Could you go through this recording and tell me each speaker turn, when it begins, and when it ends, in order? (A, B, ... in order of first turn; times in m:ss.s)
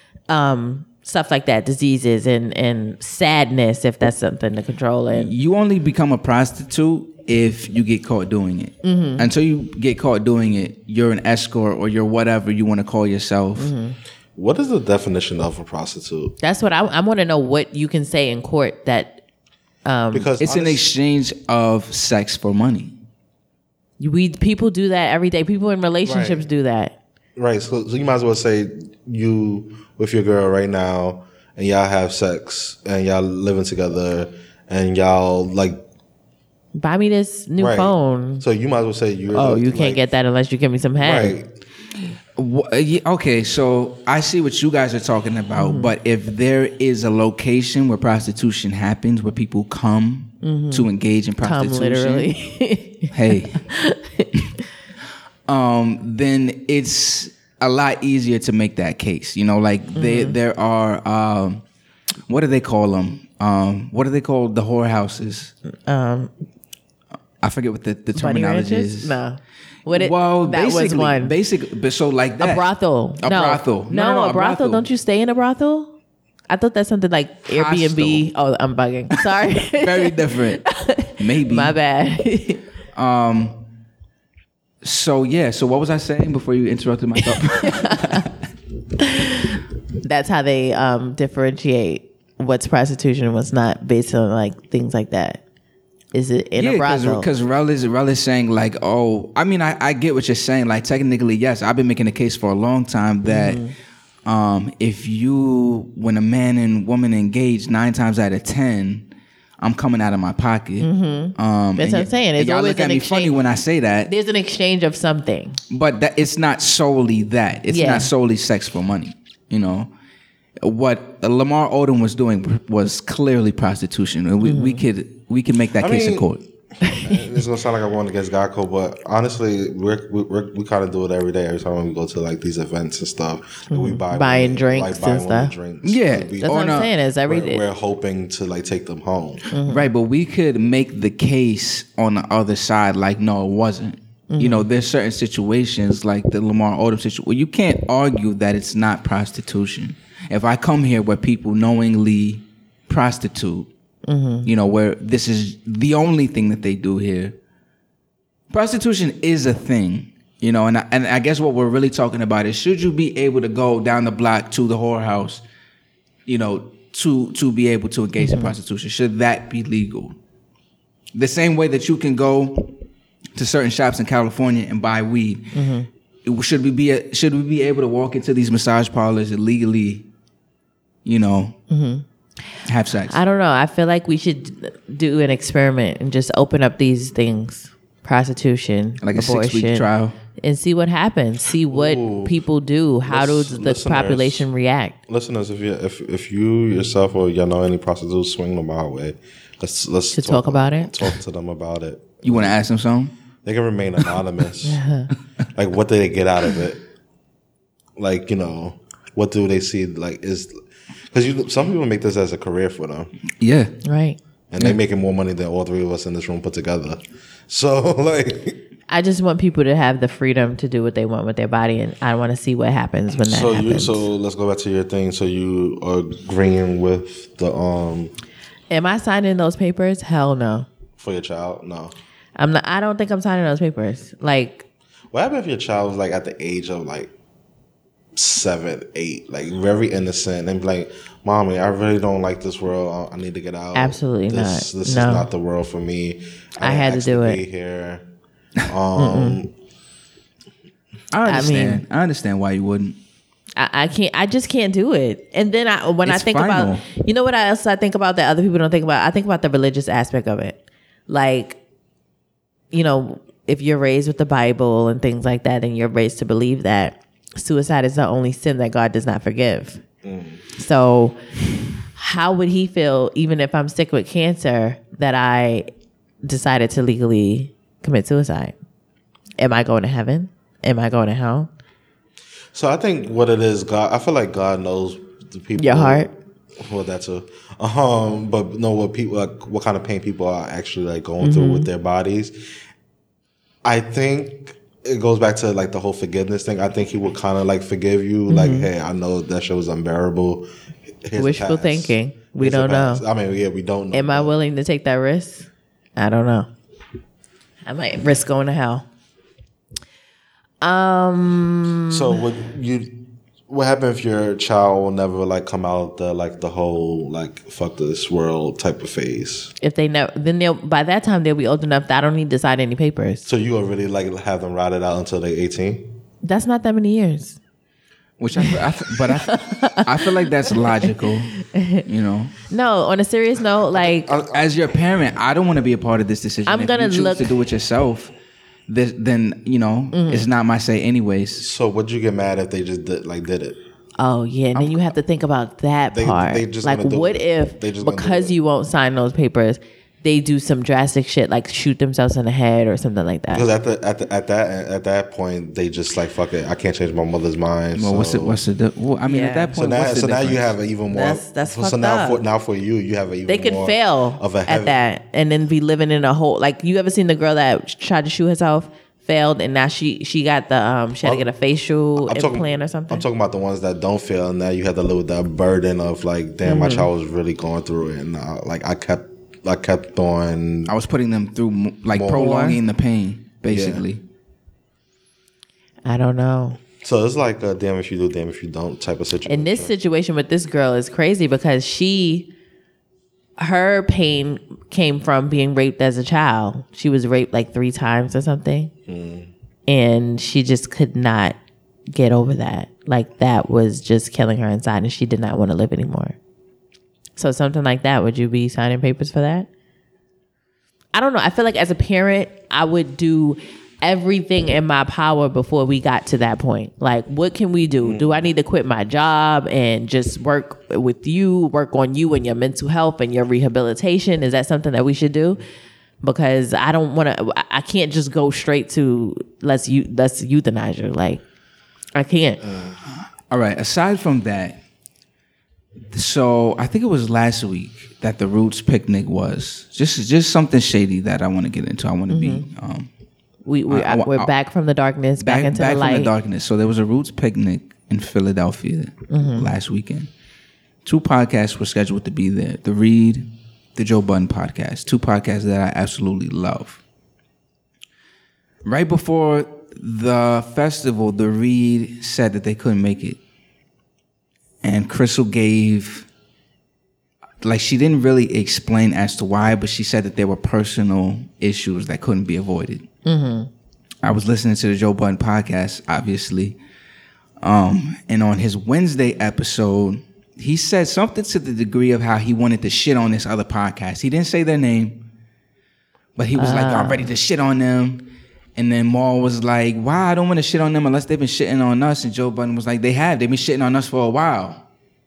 0:00.3-0:05.3 A
0:05.1-0:13.7 B
0:08.8-0:09.3 A
0:13.6-0:14.0 A
0:14.4-0:16.3 C
0:16.4-0:19.2 A
0:19.8-0:20.3 A
0:20.1-0:20.9 C
0:20.4-0:22.9 B
0:24.0-0:26.9 A
0:26.0-0:26.4 C
0:27.4-0:35.8 C
0:36.7-0:38.4 A
0:37.6-0:40.0 C
0:39.3-0:41.4 A
0:41.0-0:41.5 C
0:42.4-0:52.3 B
0:45.6-0:45.9 A
0:50.4-0:50.9 A
0:51.4-0:54.4 A
0:53.1-0:53.6 B
0:55.5-1:01.6 B
1:00.0-1:00.4 A
1:02.3-1:05.5 B
1:05.9-1:06.3 A
1:07.4-1:09.2 B
1:08.1-1:11.4 A
1:09.9-1:12.6 B
1:12.4-1:15.9 A
1:13.2-1:14.9 B
1:16.5-1:22.6 A
1:17.5-1:18.3 B
1:19.3-1:20.6 B
1:21.2-1:21.7 B
1:23.0-1:23.6 B
1:24.8-1:28.3 B
1:27.2-1:28.3 A
1:29.0-1:35.4 A
1:36.1-1:37.3 A
1:36.6-1:43.6 B
1:43.2-1:43.7 A
1:44.2-1:49.1 B
1:49.6-1:54.1 B
1:50.8-1:53.3 A
1:54.1-1:55.6 A
1:55.7-1:59.9 B
1:57.7-1:58.1 A
2:00.6-2:06.4 B
2:04.4-2:04.8 A
2:05.8-2:06.3 C
2:06.8-2:07.2 A
2:06.9-2:16.7 C
2:13.7-2:15.5 A
2:15.8-2:16.9 B
2:16.4-2:17.6 A
2:17.3-2:19.5 C
2:19.5-2:19.8 A
2:19.6-2:33.7 B
2:24.3-2:24.7 A
2:34.0-2:34.5 A
2:34.4-2:37.4 B
2:38.5-2:45.4 B
2:46.3-2:50.2 B
2:48.2-2:48.5 A
2:51.1-2:52.7 B
2:53.4-2:55.6 B
2:55.5-2:55.9 A
2:56.2-3:00.0 B
3:01.0-3:01.6 B
3:01.7-3:02.0 A
3:02.6-3:03.2 B
3:03.1-3:15.0 A
3:09.0-3:10.2 B
3:11.7-3:12.4 C
3:13.0-3:14.5 C
3:15.1-3:22.6 C
3:20.1-3:20.9 A
3:22.2-3:23.1 B
3:23.4-3:24.8 C
3:24.6-3:25.1 A
3:25.5-3:26.8 C
3:28.0-3:30.6 C
3:31.1-3:33.1 C
3:33.4-3:33.7 B
3:33.8-3:34.2 A
3:34.5-3:38.6 C
3:38.9-3:44.0 A
3:43.2-3:48.1 C
3:48.7-3:50.7 A
3:51.0-3:51.9 C
3:52.4-3:54.6 A
3:55.1-3:57.1 C
3:58.1-4:08.0 C
4:03.7-4:05.3 A
4:06.6-4:07.4 A
4:08.7-4:09.5 C
4:09.0-4:09.4 A
4:11.1-4:13.0 B
4:11.2-4:11.8 A
4:13.6-4:21.6 A
4:16.0-4:16.8 B
4:22.7-4:29.8 A
4:30.0-4:30.4 C
4:30.6-4:31.2 A
4:32.0-4:35.7 A
4:36.2-4:38.6 A
4:39.4-4:41.5 A
4:42.5-4:52.4 C
4:45.6-4:46.1 A
4:51.2-4:51.7 A
4:53.6-5:00.4 C
4:58.3-4:58.7 A
5:01.0-5:04.3 C
5:01.2-5:03.0 A
5:03.9-5:06.5 A
5:07.7-5:08.9 A
5:10.6-5:12.2 A
5:11.9-5:13.0 C
5:13.5-5:19.5 C
5:19.6-5:23.3 A
5:23.2-5:25.9 C
5:26.2-5:27.4 A
5:28.2-5:32.3 B
5:28.4-5:31.8 A
5:32.5-5:34.1 A
5:33.7-5:34.5 C
5:34.3-5:38.1 B
5:36.5-5:37.3 A
5:38.7-5:41.4 B
5:39.9-5:40.3 A
5:41.4-5:43.6 C
5:44.0-5:53.5 A
5:45.9-5:48.3 C
5:53.3-5:58.4 C
5:57.8-6:00.5 B
5:59.0-5:59.5 A
5:59.5-6:04.8 C
6:00.9-6:02.2 A
6:03.3-6:13.0 A
6:12.0-6:20.7 C
6:16.4-6:16.9 A
6:20.7-6:24.0 B
6:21.9-6:22.3 C
6:22.1-6:22.6 A
6:23.5-6:23.8 C
6:25.8-6:26.6 A
6:26.8-6:29.7 C
6:29.3-6:32.3 A
6:33.4-6:38.7 A
6:38.9-6:39.3 C
6:39.7-6:41.4 A
6:41.9-6:46.2 A
6:47.2-6:49.5 A
6:50.9-7:05.4 A
6:57.8-6:58.3 C
7:06.0-7:11.2 A
7:12.0-7:12.4 A
7:12.5-7:12.7 C
7:12.8-7:14.6 B
7:15.9-7:22.9 B
7:22.1-7:22.4 A
7:23.4-7:26.1 A
7:23.7-7:24.3 B
7:25.2-7:30.1 B
7:29.1-7:29.5 A
7:30.8-7:36.8 B
7:38.6-7:43.2 B
7:44.6-7:46.1 B
7:47.4-7:52.9 B
7:53.0-7:53.5 A
7:54.0-7:56.6 B
7:57.4-8:05.0 B
8:06.2-8:14.6 B
8:06.4-8:07.1 A